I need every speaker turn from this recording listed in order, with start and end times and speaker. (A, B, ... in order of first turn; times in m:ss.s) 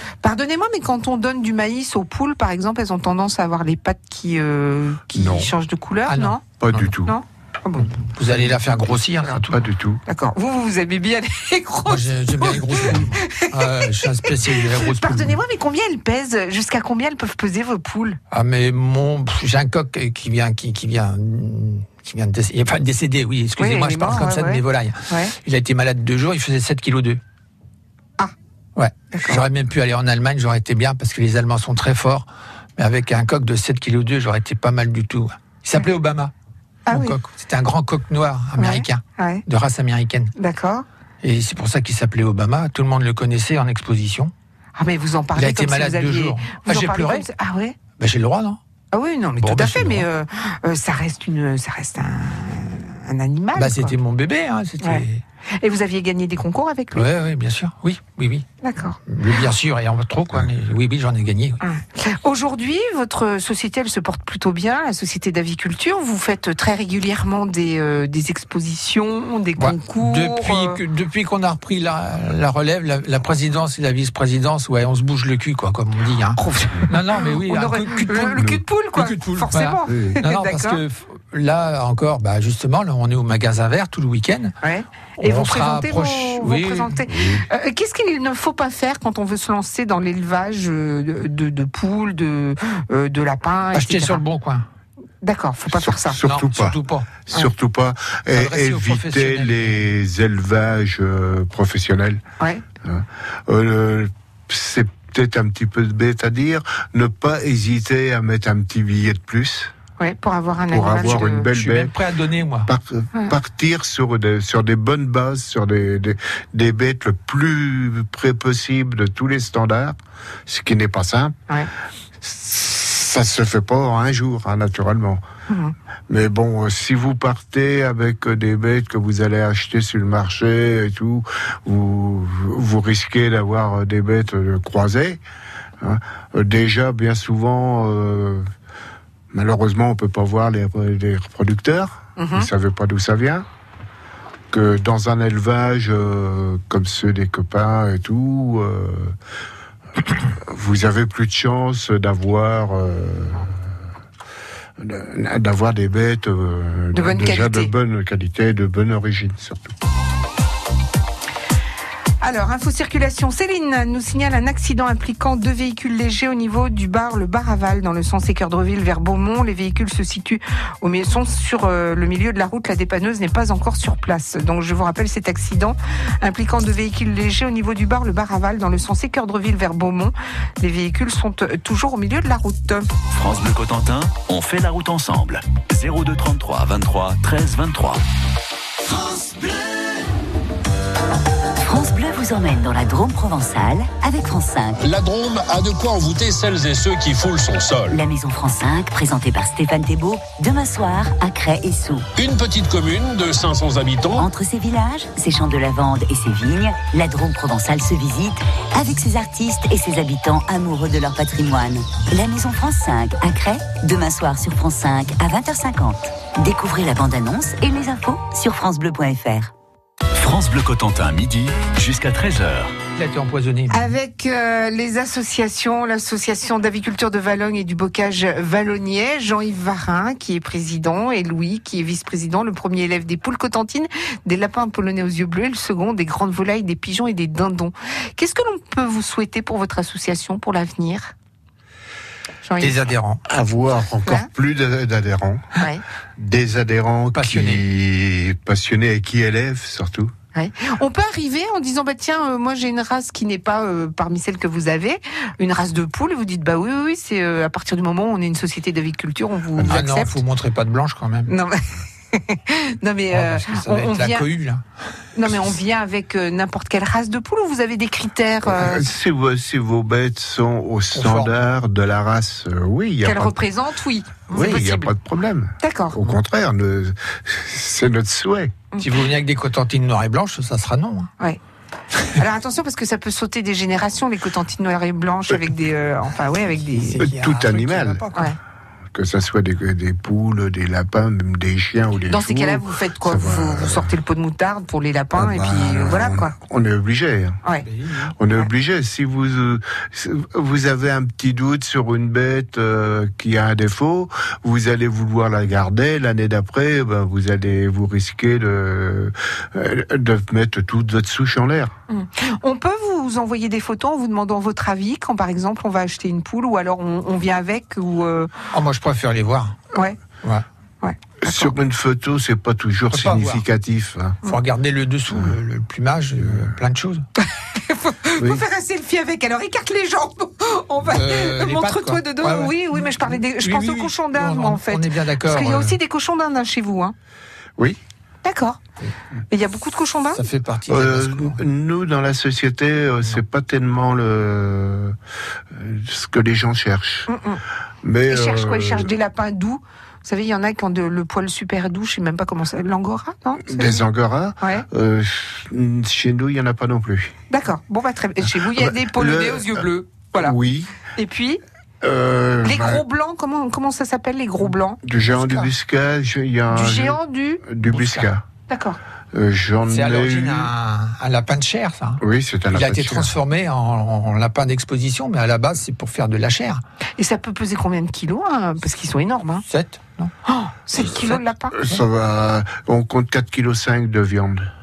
0:00.2-0:06.5 A
0:05.1-0:05.5 B
0:06.1-0:06.9 C
0:06.6-0:07.2 B
0:07.1-0:08.1 A
0:07.8-0:09.4 C
0:08.2-0:08.9 B
0:09.2-0:09.5 A
0:09.5-0:10.0 B
0:10.1-0:18.2 A
0:11.9-0:15.4 C
0:18.3-0:27.2 C
0:23.6-0:25.4 A
0:28.8-0:32.3 C
0:29.1-0:29.4 A
0:32.8-0:36.3 C
0:36.9-0:37.2 A
0:36.9-0:39.0 C
0:38.6-0:39.4 A
0:39.5-0:40.3 C
0:40.4-0:40.8 A
0:41.2-0:44.3 C
0:44.8-0:47.8 A
0:45.4-0:47.2 C
0:48.0-0:48.6 C
0:48.9-0:54.0 A
0:49.4-0:50.1 C
0:53.6-0:55.2 C
0:54.8-0:55.1 A
0:55.6-0:57.1 A
0:57.0-0:58.4 C
0:58.6-0:59.0 A
0:59.1-1:01.6 C
1:01.6-1:10.8 A
1:09.6-1:16.4 C
1:16.3-1:20.8 A
1:16.9-1:24.5 C
1:18.4-1:18.6 B
1:19.9-1:20.2 B
1:24.6-1:34.2 A
1:25.2-1:27.0 C
1:27.1-1:27.5 B
1:33.7-1:34.6 C
1:35.2-1:36.2 A
1:35.8-1:42.2 B
1:36.2-1:37.1 C
1:38.4-1:39.8 C
1:42.8-1:49.7 B
1:50.0-1:51.5 A
1:50.7-1:51.9 B
1:51.6-1:52.7 C
1:52.6-2:01.4 B
2:02.2-2:05.2 B
2:05.5-2:05.8 A
2:06.1-2:15.2 B
2:15.8-2:18.4 B
2:19.3-2:23.5 B
2:22.2-2:22.5 A
2:24.5-2:29.1 B
2:30.0-2:33.5 B
2:34.8-2:39.7 B
2:36.9-2:37.7 A
2:42.2-3:02.9 A
3:03.2-3:08.0 D
3:11.6-3:15.0 E
3:14.8-3:18.0 F
3:17.9-3:22.1 E
3:22.2-3:24.3 F
3:24.2-3:39.5 E
3:40.1-3:42.8 D
3:42.9-3:43.8 C
3:43.7-4:01.1 A
4:02.4-4:02.8 A
4:02.6-4:03.2 C
4:03.3-4:05.5 B
4:05.6-4:05.8 A
4:06.2-4:10.1 B
4:07.2-4:07.6 C
4:10.3-4:20.2 A
4:19.6-4:21.3 C
4:21.3-4:21.6 A
4:22.1-4:24.3 A
4:23.1-4:24.6 C
4:25.2-4:28.9 A
4:28.4-4:33.4 B
4:31.0-4:31.3 C
4:33.0-4:34.9 A
4:34.3-4:38.6 B
4:35.6-4:36.0 A
4:38.8-4:41.1 C
4:42.2-4:47.0 A
4:46.7-4:48.3 C
4:47.0-4:48.1 B
4:48.9-4:54.0 B
4:52.1-4:56.3 A
4:55.2-4:57.4 B
4:57.6-4:58.1 C
4:58.2-5:11.7 B
5:11.9-5:18.3 A
5:18.6-5:19.5 C
5:19.7-5:20.0 A
5:20.8-5:21.5 A
5:21.2-5:24.2 B
5:22.9-5:23.4 C
5:24.3-5:27.0 C
5:25.1-5:25.4 B
5:26.2-5:26.5 B
5:27.6-5:36.9 A
5:28.2-5:28.4 B
5:30.9-5:35.8 C
5:38.2-5:38.6 A
5:39.3-5:40.2 A
5:40.1-5:41.4 C
5:40.7-5:45.0 B
5:45.5-5:47.1 B
5:47.1-5:47.4 A
5:47.8-5:48.9 B
5:48.1-5:53.8 A
5:53.4-5:57.1 B
5:57.3-6:00.4 A
5:58.5-5:59.7 B
6:00.2-6:00.8 B
6:01.0-6:01.4 A
6:01.8-6:02.8 B
6:02.4-6:05.5 A
6:04.8-6:08.3 B
6:06.5-6:07.4 A
6:07.7-6:08.1 C
6:08.5-6:08.8 A
6:09.1-6:10.5 B
6:09.7-6:12.0 C
6:12.0-6:13.2 B
6:12.5-6:16.6 C
6:17.0-6:19.4 A
6:19.5-6:20.1 C
6:20.3-6:21.6 A
6:20.8-6:21.2 C
6:21.5-6:24.5 B